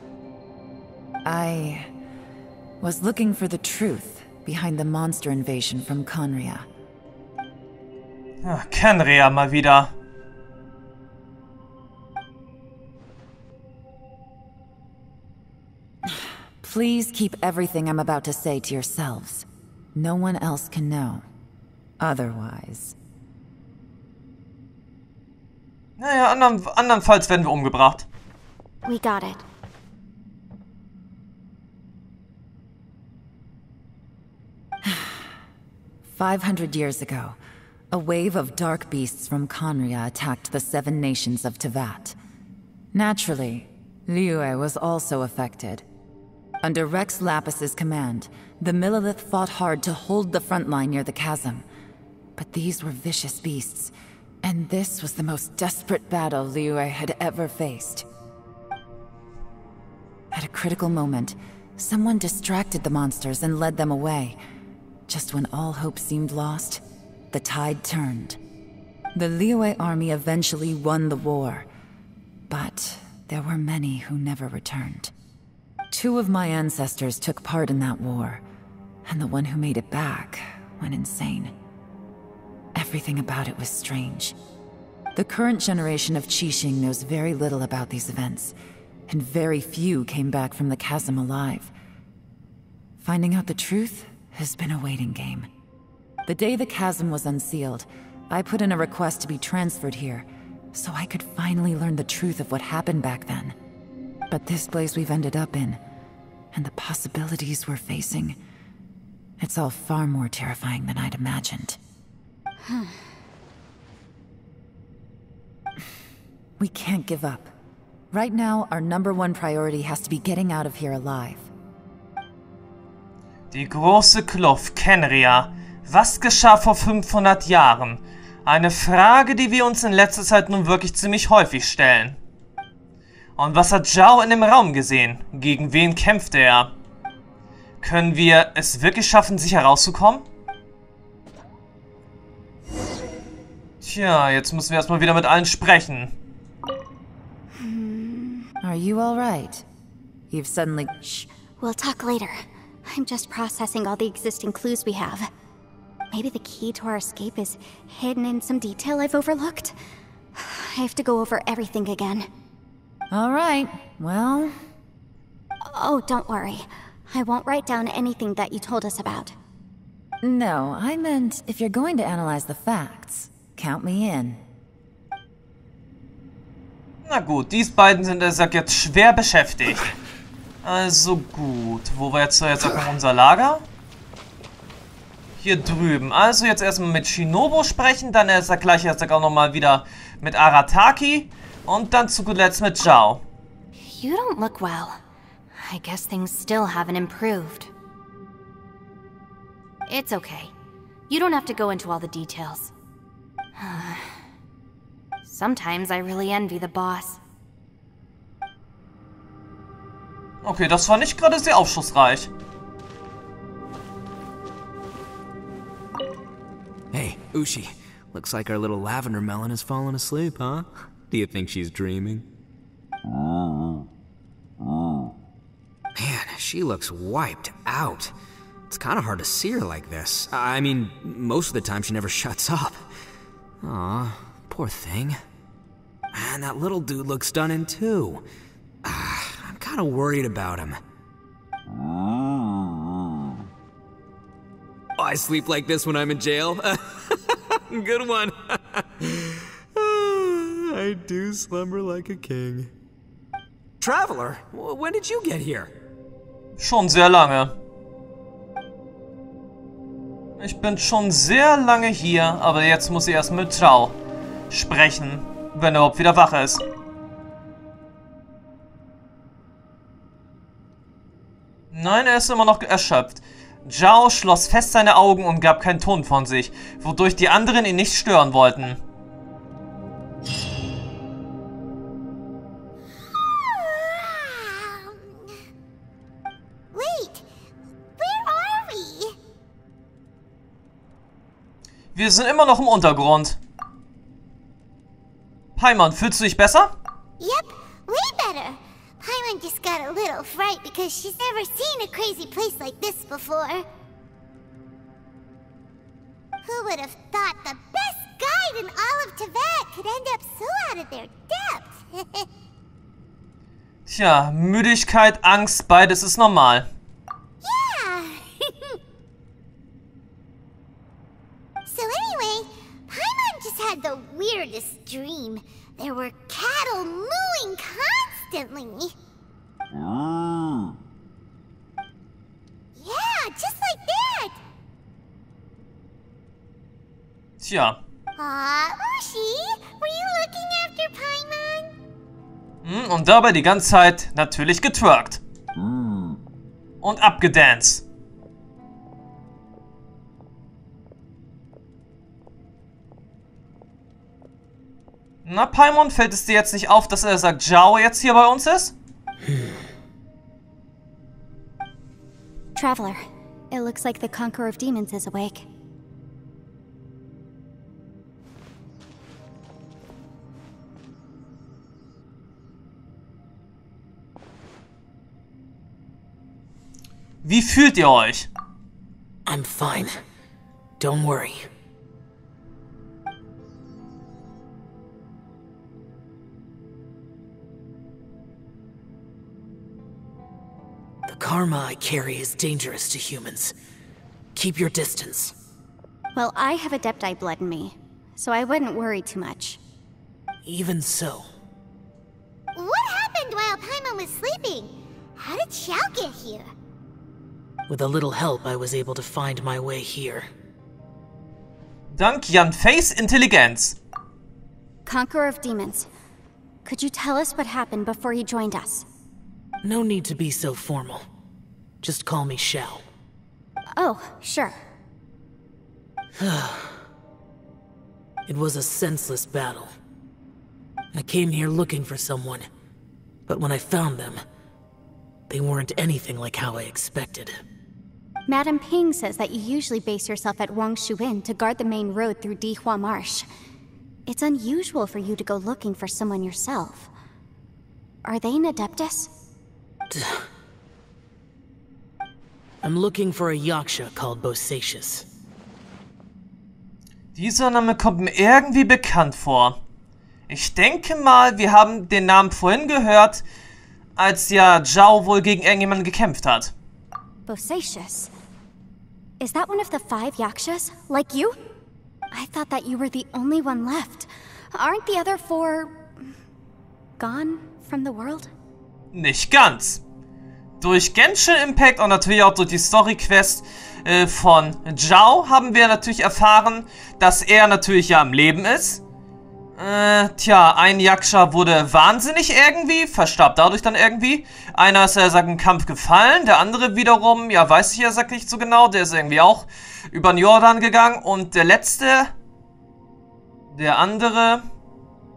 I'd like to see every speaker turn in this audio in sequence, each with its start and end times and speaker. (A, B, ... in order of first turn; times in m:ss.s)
0:01.2-0:01.9 A
0:02.8-0:06.7 A
0:08.4-0:09.9 B
0:16.1-0:21.2 A
0:22.0-0:23.0 A
0:26.0-0:28.1 B
0:28.9-0:29.4 C
0:34.8-0:35.3 A
0:36.1-0:37.4 A
0:37.9-0:42.2 A
0:42.9-0:45.8 A
0:46.6-0:51.7 A
0:52.4-0:58.1 A
1:00.3-1:04.4 A
1:05.1-1:08.4 A
1:09.1-1:11.7 A
1:12.5-1:15.1 A
1:15.9-1:18.4 A
1:19.0-1:21.5 A
1:22.8-1:24.4 A
1:25.2-1:28.6 A
1:29.1-1:31.7 A
1:33.0-1:35.5 A
1:36.3-1:43.6 A
1:44.3-1:45.8 A
1:46.5-1:48.4 A
1:49.4-1:51.8 A
1:52.7-1:53.0 C
1:56.6-1:57.5 A
1:58.1-2:01.5 A
2:03.5-2:12.2 B
2:13.4-2:16.7 B
2:17.8-2:20.2 B
2:23.8-2:26.1 B
2:27.5-2:28.5 C
2:28.6-2:29.6 A
2:30.3-2:31.3 A
2:31.6-2:35.3 C
2:36.1-2:39.8 C
2:40.4-2:42.3 C
2:43.1-2:44.6 A
2:45.6-2:49.4 C
2:50.2-2:54.4 A
2:57.0-2:59.9 B
3:00.6-3:03.6 B
3:05.4-3:13.2 B
3:13.8-3:15.0 D
3:15.6-3:17.7 D
3:19.9-3:20.5 D
3:21.1-3:22.7 D
3:23.6-3:24.2 D
3:25.2-3:27.2 D
3:30.4-3:32.3 B
3:36.9-3:42.2 E
3:46.0-3:48.1 E
3:48.7-3:52.9 E
3:53.6-3:55.2 E
3:56.1-3:58.2 E
3:58.8-4:00.8 E
4:05.0-4:12.7 E
4:13.8-4:15.7 E
4:16.6-4:17.6 B
4:20.4-4:24.0 B
4:24.5-4:26.6 B
4:31.7-4:38.8 B
4:43.2-4:45.0 F
4:46.7-4:47.2 F
4:48.0-4:49.2 F
4:52.0-4:53.4 B
4:55.6-4:56.7 B
4:57.2-5:03.6 F
5:06.4-5:12.3 F
5:13.9-5:16.7 B
5:17.4-5:18.8 F
5:21.7-5:28.9 F
5:32.8-5:34.4 F
5:37.4-5:37.8 B
5:38.2-5:41.7 F
5:42.6-5:45.2 B
5:46.8-5:47.8 B
5:55.2-5:58.7 B
5:59.2-5:59.6 G
6:02.6-6:05.4 C
6:17.2-6:18.3 B
6:19.3-6:20.0 G
6:20.8-6:21.5 G
6:31.1-6:33.6 G
6:34.4-6:35.4 G
6:36.2-6:39.6 C
6:40.4-6:41.3 G
6:42.6-6:46.5 F
6:47.7-6:50.3 G
6:51.9-6:53.8 B
6:54.9-6:55.9 C
6:56.6-6:58.9 C
6:59.6-7:01.1 G
7:01.8-7:02.8 G
7:03.8-7:04.6 C
7:06.2-7:06.8 G
7:08.3-7:09.7 G
7:10.9-7:12.5 G
7:13.3-7:14.2 G
7:15.3-7:17.4 G
7:18.3-7:23.3 C
7:24.1-7:26.9 C
7:28.0-7:29.1 C
7:29.9-7:30.3 G
7:32.6-7:35.1 G
7:37.2-7:39.6 B
7:40.3-7:43.2 B
7:44.0-7:46.5 B
7:47.3-7:48.1 C
7:49.2-7:51.4 C
7:52.1-7:55.8 C
7:57.0-7:58.3 C
7:58.9-7:59.8 B
8:00.6-8:08.8 B
8:09.6-8:22.1 B
8:23.5-8:24.5 B